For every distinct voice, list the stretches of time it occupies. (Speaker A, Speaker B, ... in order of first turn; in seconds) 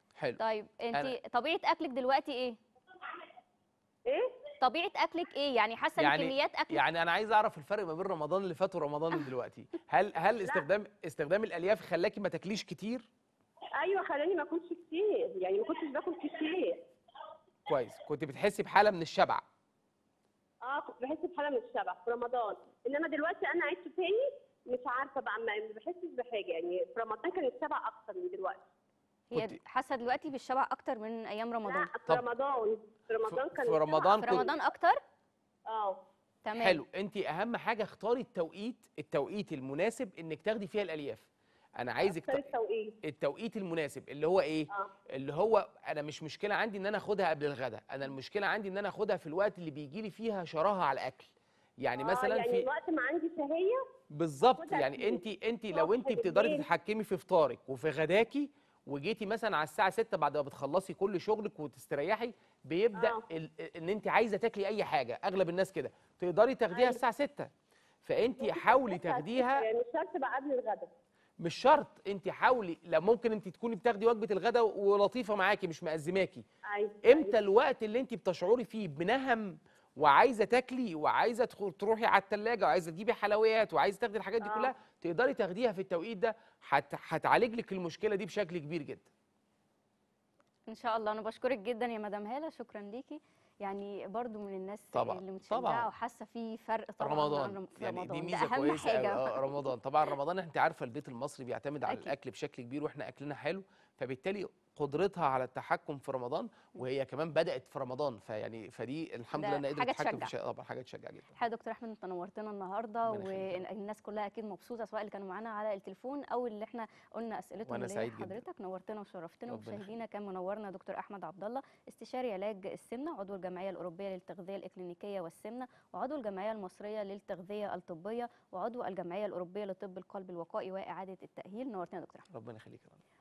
Speaker A: 0.4-2.6, 4.6-6.8, 29.3-31.9, 34.2-35.0, 36.4-36.8, 90.7-99.7, 101.9-102.1, 109.4-110.3, 111.3-132.3
Speaker B: 4.1-4.3, 13.8-16.9, 20.6-28.7, 31.7-34.5, 35.7-36.0, 42.0-42.9, 52.0-53.8, 54.5-55.2, 55.7-56.7, 63.0-63.2, 66.7-67.0, 68.4-70.9, 76.7-77.3, 84.4-84.7
Speaker C: 6.0-13.1, 17.7-19.4, 29.3-29.6, 33.3-34.5, 36.6-41.3, 41.8-42.5, 43.0-52.7, 54.1-67.5, 68.0-69.7, 71.4-76.5, 77.0-89.1, 94.9-95.9, 97.0-111.4, 113.0-113.7, 117.7-118.4, 119.5-120.0, 132.3-133.0